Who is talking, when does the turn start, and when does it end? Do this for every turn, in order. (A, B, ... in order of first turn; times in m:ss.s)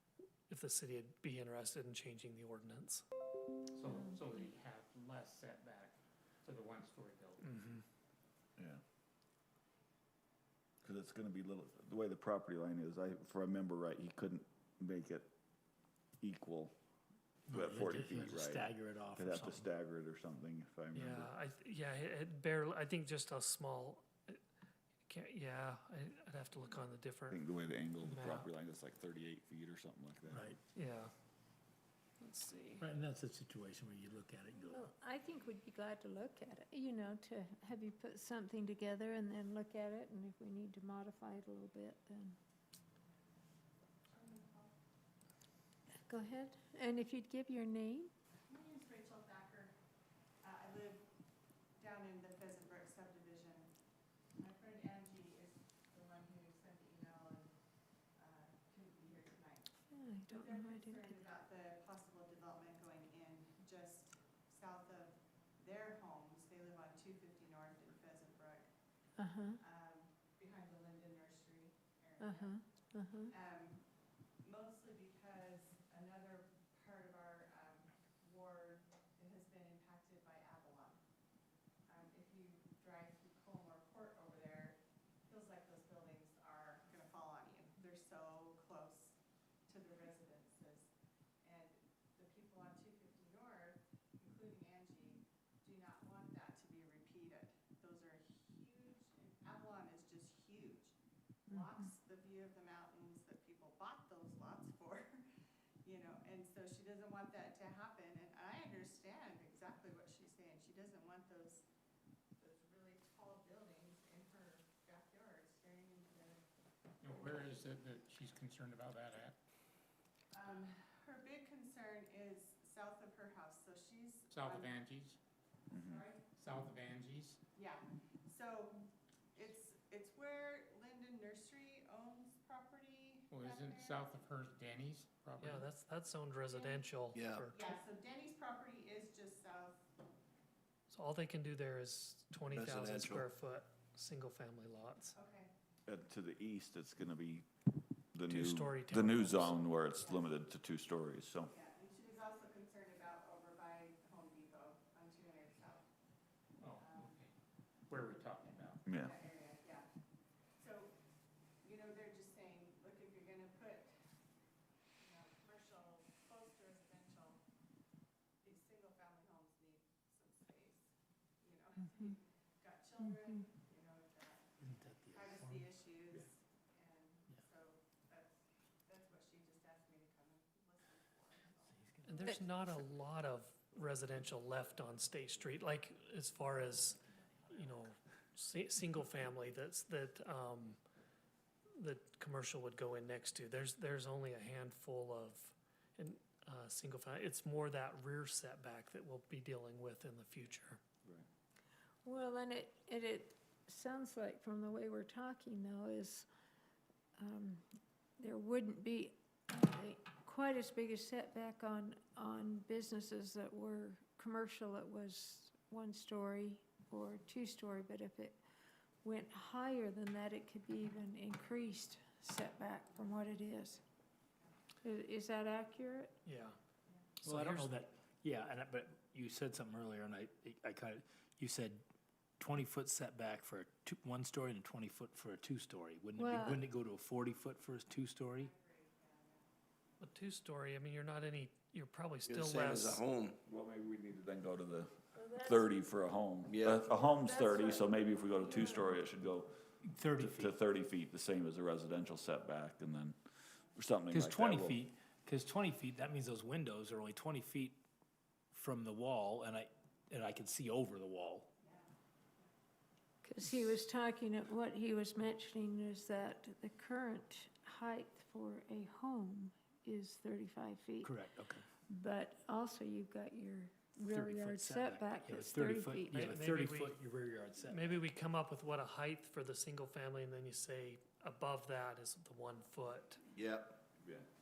0:00.5-0:03.0 A
0:03.7-0:07.4 B
0:07.4-0:07.8 A
0:10.8-0:15.3 C
0:16.2-0:16.7 C
0:17.5-0:19.6 D
0:17.5-0:21.3 C
0:20.9-0:24.4 A
0:25.1-0:27.4 A
0:27.3-0:30.6 C
0:28.0-0:28.5 A
0:30.3-0:30.6 D
0:30.7-0:31.1 A
0:32.2-0:32.8 A
0:32.8-0:34.9 D
0:34.5-0:42.4 E
0:44.1-0:44.7 F
0:46.1-0:48.1 E
0:48.5-0:49.7 F
0:50.4-0:51.0 F
0:51.8-0:53.7 F
0:54.4-0:57.5 F
0:58.2-1:08.7 F
0:59.9-1:01.2 E
1:09.2-1:09.6 E
1:09.6-1:12.6 F
1:12.2-1:13.3 E
1:13.3-1:13.8 F
1:14.4-1:21.0 F
1:21.9-1:29.2 F
1:29.7-1:30.9 F
1:31.4-1:40.9 F
1:41.5-1:45.2 F
1:45.8-1:51.6 F
1:52.4-1:56.4 F
1:57.0-1:59.4 B
2:00.3-2:04.8 F
2:04.3-2:05.2 B
2:05.7-2:06.0 C
2:05.7-2:06.2 F
2:06.4-2:07.4 B
2:07.5-2:14.2 F
2:13.3-2:15.6 B
2:15.4-2:17.7 A
2:16.5-2:16.9 F
2:17.1-2:17.5 G
2:17.5-2:19.8 F
2:20.9-2:25.2 A
2:22.5-2:23.2 G
2:25.1-2:25.5 F
2:25.9-2:27.5 C
2:28.1-2:31.5 C
2:28.3-2:29.6 A
2:30.0-2:30.3 F
2:31.5-2:35.9 F
2:36.6-2:37.3 B
2:36.8-2:37.2 F
2:37.9-2:38.8 B
2:38.8-2:39.1 C
2:38.8-2:39.9 F
2:40.6-2:40.9 F
2:41.6-2:44.0 F
2:45.0-2:47.4 F
2:48.4-2:54.5 F
2:54.6-2:55.7 D
2:55.1-3:01.8 F
3:01.7-3:02.4 D
3:02.0-3:10.8 A
3:11.8-3:20.8 A
3:22.0-3:26.3 E
3:27.2-3:27.6 E
3:28.2-3:38.4 E
3:39.0-3:43.8 E
3:42.8-3:43.6 F
3:44.8-3:46.2 E
3:46.2-3:46.6 A
3:46.9-3:47.1 F
3:47.2-3:51.8 D
3:47.2-3:47.7 A
3:52.4-3:58.5 D
3:56.2-3:56.6 E
3:58.4-3:59.5 F
4:00.0-4:03.0 A
4:02.2-4:03.4 G
4:03.4-4:09.6 C
4:05.2-4:05.7 E
4:06.5-4:06.9 G
4:07.0-4:08.9 E
4:09.8-4:10.5 D
4:10.2-4:13.2 C
4:13.7-4:14.8 C
4:14.1-4:17.8 D
4:18.5-4:21.5 D
4:21.6-4:22.5 F
4:23.2-4:31.1 E
4:23.4-4:23.8 D
4:31.0-4:31.7 D
4:31.9-4:36.3 E
4:34.0-4:38.0 D
4:36.1-4:37.0 A
4:37.7-4:43.2 A
4:43.3-4:43.8 G